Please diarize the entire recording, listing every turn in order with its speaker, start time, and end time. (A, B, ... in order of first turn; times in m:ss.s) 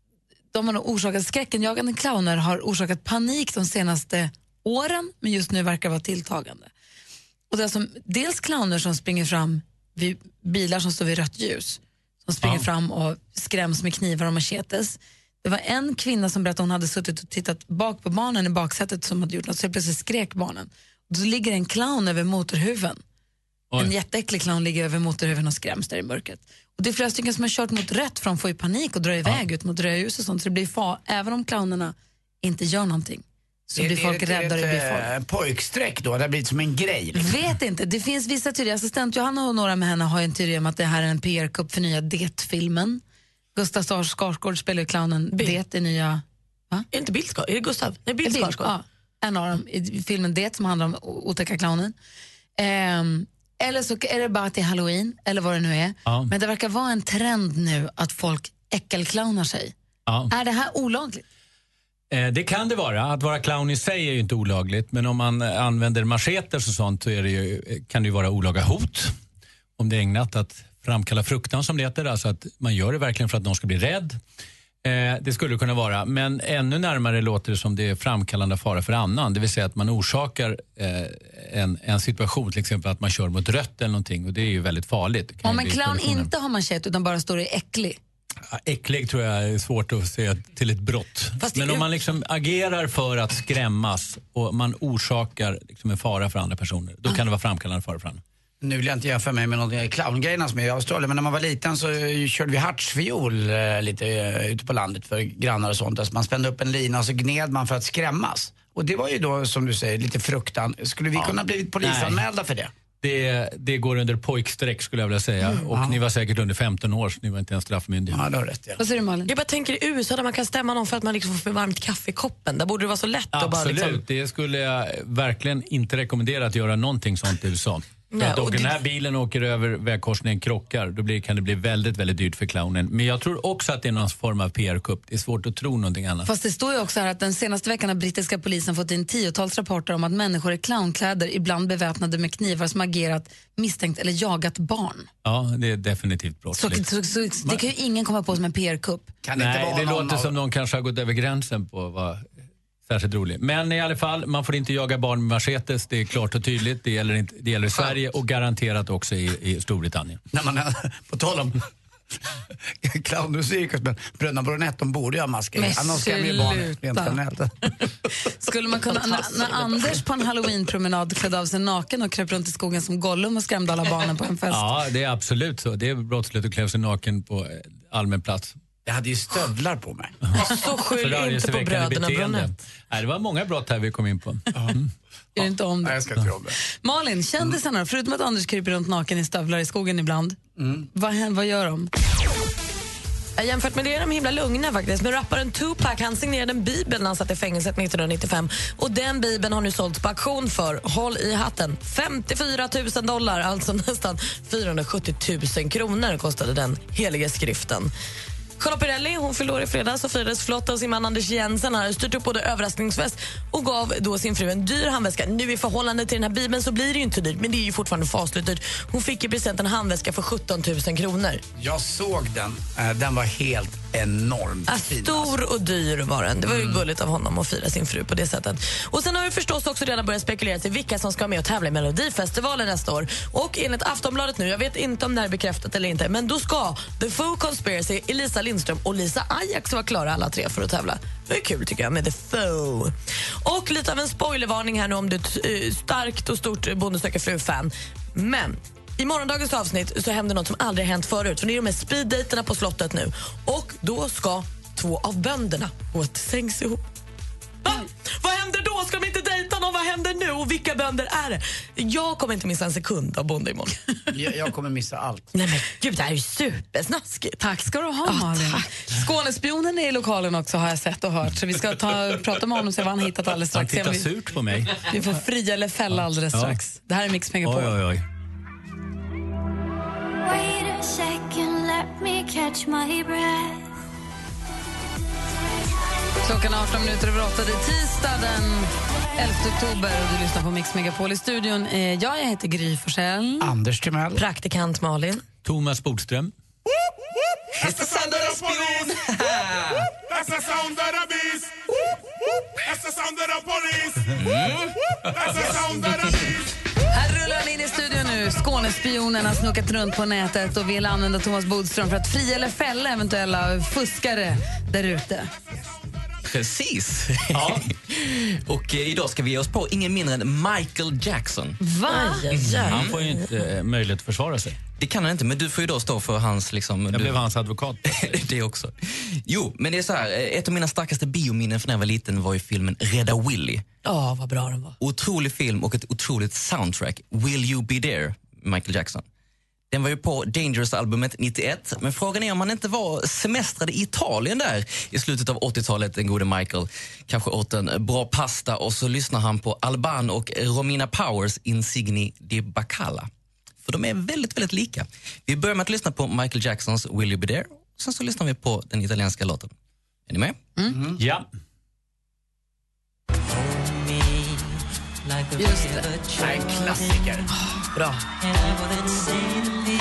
0:00.5-0:06.7 A
0:07.5-0:23.0 A
0:23.8-0:35.1 A
0:33.7-0:37.3 B
0:37.1-0:43.0 A
0:43.5-0:46.8 A
0:45.3-0:45.6 C
0:46.9-0:48.7 C
0:48.2-0:51.9 A
0:52.6-0:59.7 A
0:56.0-0:56.3 D
1:00.1-1:00.3 D
1:00.3-1:01.2 A
1:02.1-1:09.1 D
1:09.8-1:14.2 D
1:14.8-1:26.3 D
1:25.4-1:28.0 A
1:28.5-1:38.2 D
1:31.4-1:31.9 C
1:38.6-1:52.7 B
1:51.2-1:52.2 D
1:53.0-1:58.2 D
1:55.7-1:56.0 B
1:58.1-1:58.8 B
1:58.8-1:59.3 A
1:59.3-2:04.0 C
2:03.3-2:16.3 D
2:08.1-2:08.8 C
2:16.2-2:25.1 A
2:25.2-2:26.9 D
2:26.5-2:29.1 A
2:29.2-2:30.3 B
2:29.3-2:32.3 D
2:32.8-2:40.2 D
2:40.3-2:41.6 B
2:42.8-2:47.5 B
2:45.6-2:47.2 A
2:48.4-2:54.6 A
2:54.5-2:58.6 D
2:58.8-3:00.2 B
3:00.4-3:02.5 C
3:01.0-3:04.9 D
3:05.4-3:06.0 A
3:05.8-3:06.6 B
3:06.8-3:10.4 A
3:10.6-3:10.9 B
3:10.9-3:11.9 A
3:13.4-3:27.9 C
3:28.6-3:41.4 C
3:41.6-3:45.3 B
3:44.7-4:16.8 C
3:46.5-3:46.8 B
4:17.6-4:23.8 C
4:24.1-4:25.3 B
4:25.3-4:27.4 C
4:27.4-4:34.1 A
4:28.0-4:28.6 C
4:33.5-4:34.8 D
4:34.8-4:37.8 A
4:35.9-4:36.6 D
4:37.4-4:38.0 D
4:40.3-4:43.5 E
4:46.2-4:53.5 A
4:53.4-4:54.2 B
4:54.2-4:55.2 C
4:55.4-4:56.3 D
4:57.6-4:59.9 F
5:00.1-5:01.5 G
5:02.7-5:03.9 G
5:04.1-5:05.6 F
5:06.9-5:15.3 A
5:16.3-5:21.6 F
5:17.3-5:17.6 D
5:21.6-5:22.2 A
5:21.8-5:23.1 C
5:22.3-5:22.9 F
5:22.6-5:24.6 D
5:24.8-5:27.2 F
5:26.9-5:28.1 D
5:27.8-5:33.6 F
5:33.8-5:34.7 C
5:34.8-5:39.0 F
5:39.7-5:53.1 F
5:53.6-5:59.5 F
6:00.1-6:00.4 F
6:00.7-6:01.0 B
6:01.0-6:01.3 D
6:05.4-6:05.9 A
6:06.2-6:07.3 B